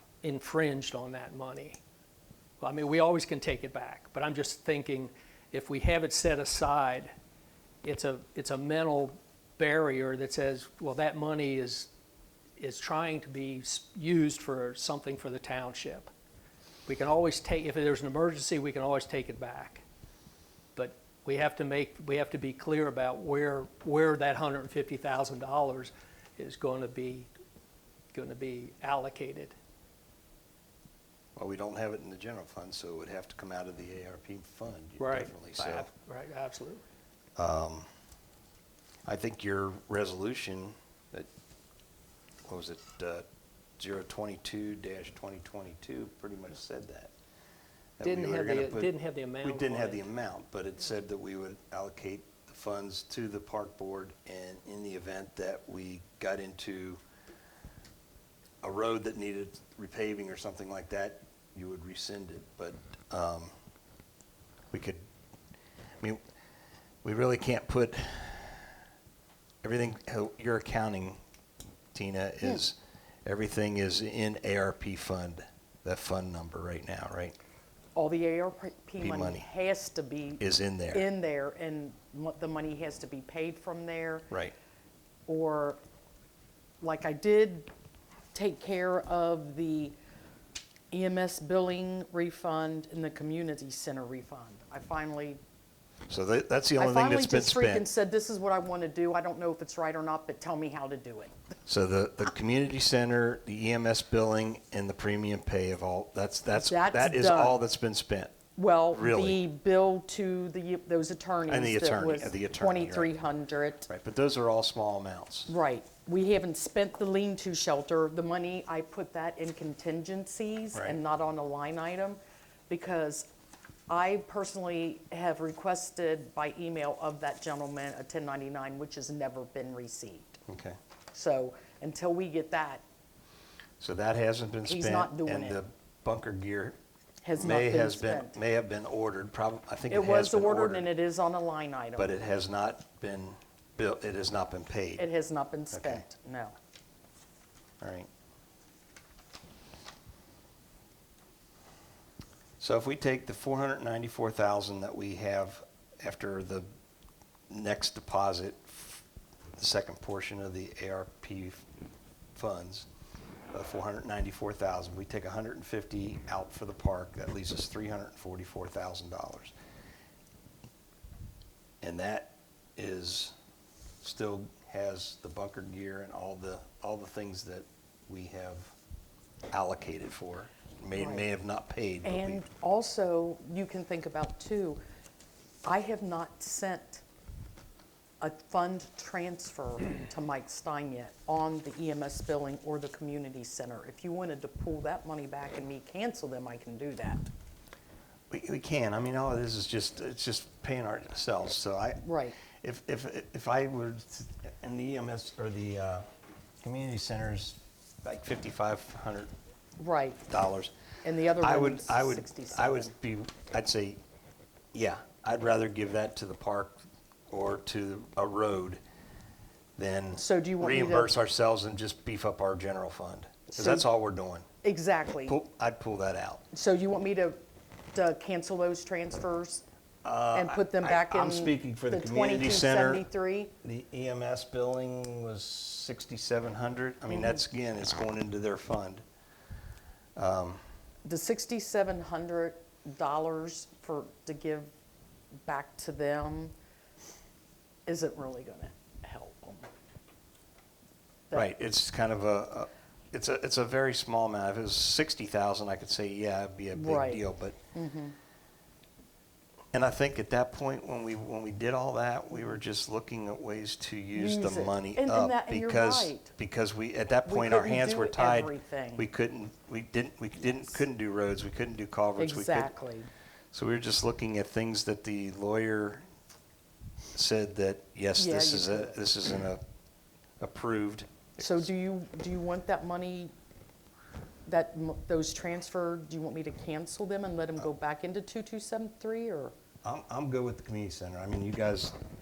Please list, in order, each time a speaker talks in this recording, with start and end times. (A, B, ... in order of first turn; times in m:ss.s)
0:00.2-0:01.8 A
0:02.6-0:07.1 A
0:07.8-0:11.9 A
0:12.6-0:16.1 A
0:16.8-0:19.8 A
0:20.7-0:27.3 A
0:28.1-0:29.5 A
0:31.4-0:35.9 B
0:35.0-0:36.8 A
0:37.4-0:37.8 B
0:39.0-0:41.3 B
0:42.4-0:43.2 B
0:43.8-0:47.1 B
0:48.0-0:57.0 B
0:48.0-0:50.1 A
0:58.6-1:03.5 B
1:04.7-1:05.0 B
1:07.0-1:08.7 B
1:09.6-1:11.2 B
1:11.9-1:17.3 B
1:17.9-1:24.3 C
1:19.0-1:19.5 B
1:20.4-1:21.0 B
1:25.3-1:25.8 C
1:26.8-1:27.7 C
1:28.3-1:29.9 C
1:30.9-1:35.4 C
1:36.1-1:37.9 B
1:36.8-1:41.3 C
1:41.7-1:48.4 B
1:46.5-1:47.6 C
1:48.6-1:53.9 C
1:48.9-1:49.4 B
1:51.5-1:53.1 B
1:53.9-1:55.5 B
1:55.5-2:02.2 C
2:02.7-2:03.3 C
2:03.9-2:10.4 C
2:10.5-2:10.8 B
2:11.1-2:12.8 C
2:13.8-2:16.8 B
2:14.6-2:15.6 C
2:17.2-2:18.4 C
2:17.4-2:20.9 B
2:19.9-2:22.1 C
2:22.0-2:25.0 B
2:25.0-2:26.5 C
2:25.7-2:26.0 B
2:27.8-2:28.1 B
2:32.6-2:36.6 B
2:37.5-2:39.0 B
2:39.6-2:41.6 B
2:42.3-2:42.9 B
2:43.5-2:49.5 B
2:51.8-2:53.3 B
2:54.0-2:58.7 B
2:59.5-3:02.4 B
3:00.9-3:01.2 C
3:02.0-3:04.8 C
3:05.6-3:07.0 C
3:08.2-3:17.3 C
3:18.3-3:26.0 B
3:22.0-3:22.4 C
3:26.6-3:29.3 B
3:29.8-3:30.2 C
3:30.3-3:30.7 B
3:31.0-3:32.9 C
3:31.4-3:34.0 B
3:34.7-3:38.8 B
3:39.8-3:44.4 B
3:40.2-3:41.1 C
3:43.5-3:43.9 C
3:44.6-3:45.4 C
3:45.3-3:46.4 B
3:46.5-3:47.4 C
3:47.9-3:49.6 C
3:50.0-3:53.1 B
3:50.3-3:53.5 C
3:53.6-3:59.0 B
3:57.1-3:57.4 C
4:00.2-4:00.6 B
4:01.0-4:04.7 C
4:05.4-4:06.5 C
4:07.8-4:09.7 C
4:11.3-4:17.6 B
4:16.7-4:17.2 C
4:17.7-4:18.1 C
4:19.7-4:32.7 B
4:24.1-4:26.3 C
4:27.2-4:29.0 C
4:30.5-4:30.8 C
4:32.2-4:33.1 C
4:33.5-4:36.0 B
4:37.1-4:39.6 B
4:38.2-4:39.0 C
4:40.4-4:41.7 B
4:41.4-4:43.3 C
4:44.4-4:49.5 C
4:49.8-4:51.9 B